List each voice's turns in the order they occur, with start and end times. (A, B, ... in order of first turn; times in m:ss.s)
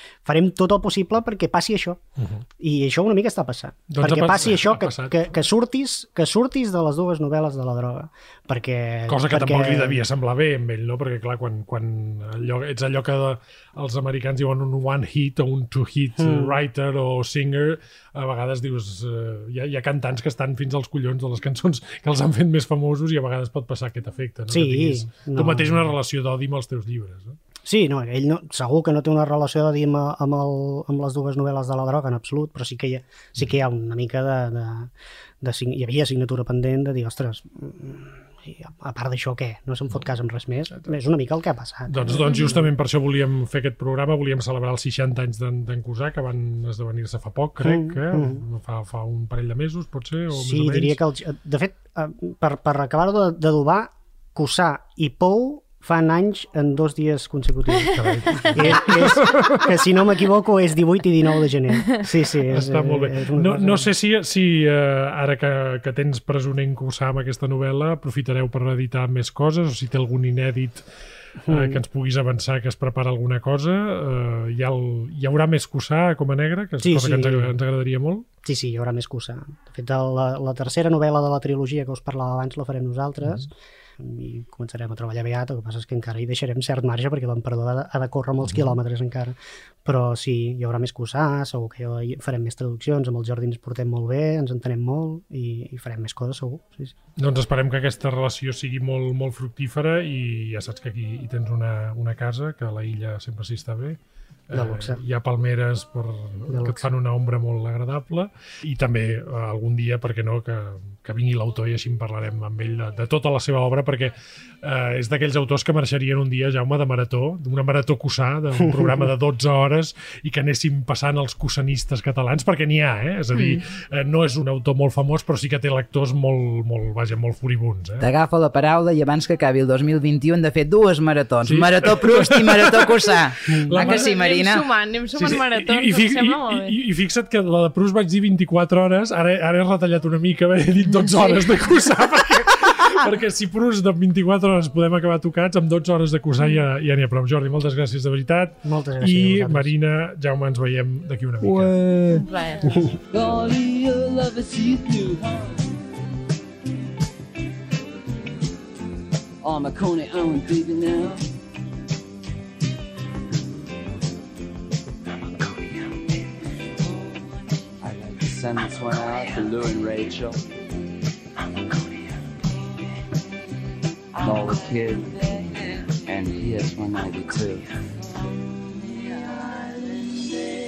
0:00.2-0:02.0 A
0:02.6-0:10.0 A
0:03.9-0:05.2 B
0:09.1-0:27.4 B
0:16.2-0:16.6 A
0:24.5-0:25.9 A
0:27.6-0:42.7 A
0:41.9-0:51.0 B
0:47.6-0:48.4 A
0:50.3-1:03.9 A
0:57.9-0:59.7 B
1:02.5-1:10.8 B
1:11.5-1:11.8 A
1:11.5-1:18.3 B
1:16.8-1:17.5 A
1:18.4-1:37.0 A
1:37.2-2:08.1 B
1:44.5-1:45.0 A
1:46.5-1:46.9 A
2:03.4-2:03.6 C
2:08.0-2:14.6 D
2:11.4-2:14.1 B
2:13.7-2:16.7 C
2:15.2-2:31.8 B
2:21.1-2:21.6 C
2:28.6-2:29.7 A
2:31.4-2:32.2 E
2:32.2-2:32.8 C
2:33.1-2:35.7 E
2:39.4-2:41.2 E
2:45.4-2:45.9 E
2:47.8-2:50.5 E
2:54.2-2:57.8 E